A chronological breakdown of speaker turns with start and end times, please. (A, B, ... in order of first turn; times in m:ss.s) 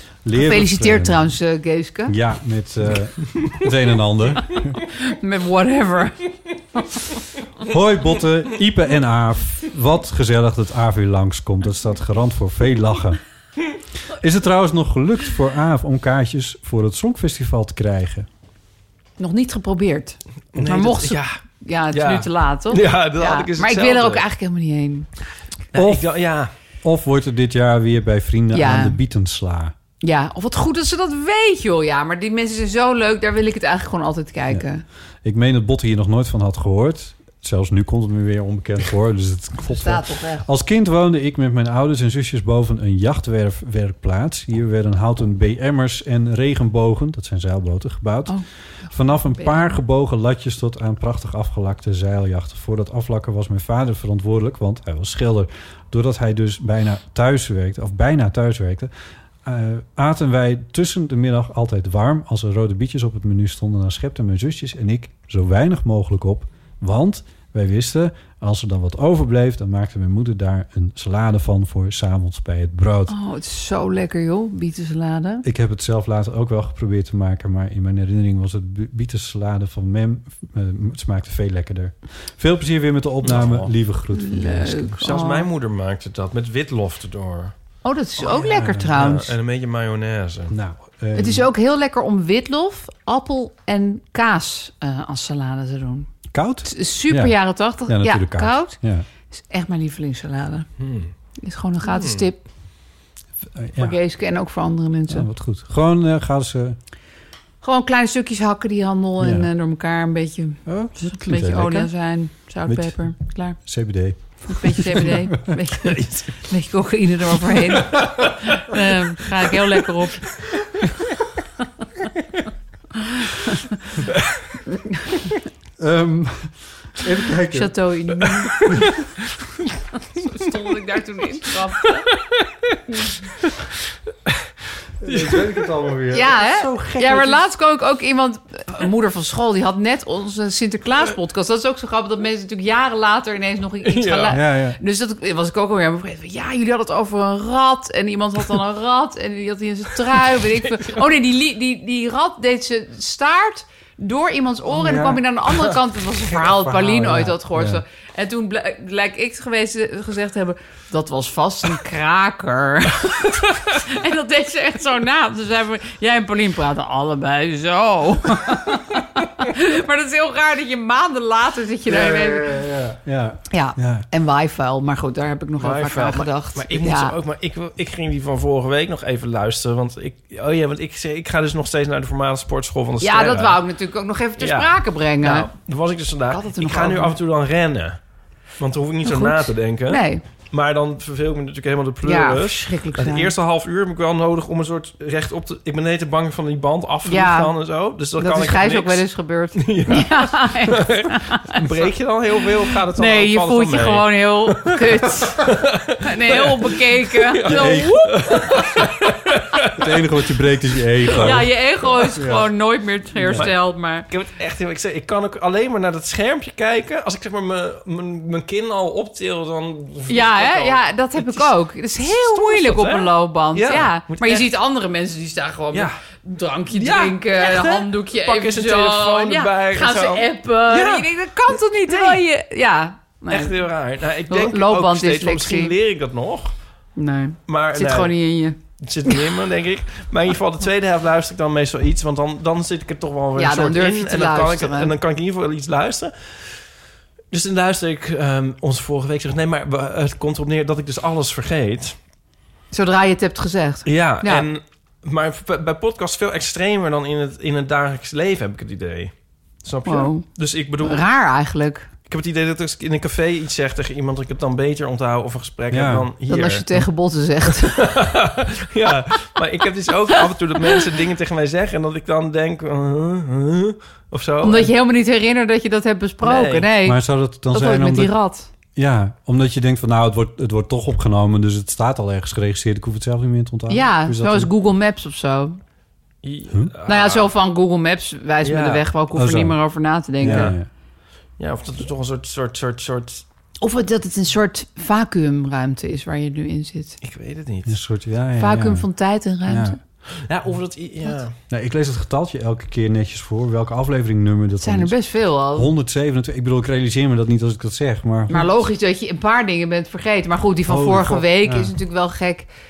0:00.2-0:01.4 A
0:00.4-0:02.2 B
0:02.1-0:04.8 A
0:04.9-0:07.0 B
0:07.6-0:13.2 A
0:14.1-0:18.3 A
0:19.2-0:25.1 B
0:20.5-0:21.4 C
0:21.9-0:24.2 C
0:25.7-0:26.5 C
0:25.8-0:26.1 A
0:26.8-0:29.7 A
0:28.5-0:29.0 B
0:30.0-0:34.8 B
0:35.2-0:58.9 A
0:39.7-0:40.5 B
0:48.3-0:49.7 B
0:59.4-1:13.1 A
1:13.1-1:15.4 B
1:15.4-1:25.0 A
1:23.2-1:23.7 C
1:24.1-1:25.5 B
1:25.0-1:27.5 C
1:27.8-1:29.3 B
1:28.4-1:28.9 A
1:28.9-1:30.6 C
1:30.5-1:31.5 A
1:31.2-1:36.1 B
1:36.3-1:39.1 A
1:36.6-1:38.8 B
1:39.3-1:40.7 B
1:40.8-1:41.1 C
1:41.4-1:42.4 B
1:41.8-1:42.2 C
1:43.5-1:44.0 A
1:43.8-1:45.3 B
1:45.1-1:46.8 A
1:47.6-1:53.6 B
1:49.2-1:49.5 A
1:50.7-1:51.9 A
1:52.7-1:55.6 A
1:54.5-2:00.3 B
1:55.8-1:56.3 C
2:05.8-2:07.8 A
2:07.5-2:08.8 B
2:08.6-2:08.8 C
2:10.2-2:12.1 B
2:12.1-2:12.8 C
2:15.0-2:17.4 A
2:15.0-2:15.7 C
2:16.1-2:52.5 B
2:23.8-2:24.4 C
2:24.3-2:24.8 A
2:34.7-2:35.2 A
2:36.4-2:37.8 A
2:51.9-2:54.1 A
2:53.5-2:57.2 B
2:55.6-3:03.6 C
3:03.0-3:05.5 B
3:04.4-3:08.0 C
3:06.3-3:07.2 B
3:08.6-3:30.0 C
3:09.1-3:10.2 B
3:12.0-3:13.3 B
3:17.1-3:17.6 B
3:18.2-3:21.6 B
3:22.9-3:28.8 B
3:27.4-3:28.1 A
3:29.7-3:31.5 A
3:31.1-3:31.4 C
3:31.2-3:34.1 B
3:32.1-3:32.5 A
3:33.2-3:33.5 A
3:33.3-3:44.5 C
3:40.1-3:53.7 B
3:45.7-3:46.0 C
3:46.7-3:52.2 C
3:53.3-3:56.5 C
3:54.3-3:55.7 B
3:57.0-3:59.2 B
3:57.5-3:58.2 C
3:58.8-4:06.7 C
4:03.4-4:04.9 B
4:07.3-4:12.0 C
4:12.7-4:14.5 B
4:13.8-4:21.0 C
4:19.8-4:20.2 B
4:20.8-4:21.9 B
4:22.1-4:26.7 C
4:25.7-4:26.1 A
4:26.3-4:27.9 B
4:27.8-4:34.7 C
4:34.4-4:38.5 B
4:36.2-4:36.7 C
4:36.8-4:38.1 A
4:38.8-4:44.5 A
4:43.7-4:45.6 B
4:46.2-4:47.3 C
4:46.9-4:50.5 B
4:48.4-4:48.8 C
4:49.1-4:49.6 A
4:50.2-4:50.7 A
4:50.2-4:50.6 C
4:51.4-4:53.2 C
4:53.6-4:57.0 B
4:57.0-4:57.8 C
4:57.7-4:58.9 A
4:58.4-4:59.8 B
4:59.4-4:59.8 A
5:00.2-5:01.4 C
5:01.5-5:08.5 A
5:04.6-5:05.7 B
5:08.3-5:12.5 B
5:10.7-5:11.7 A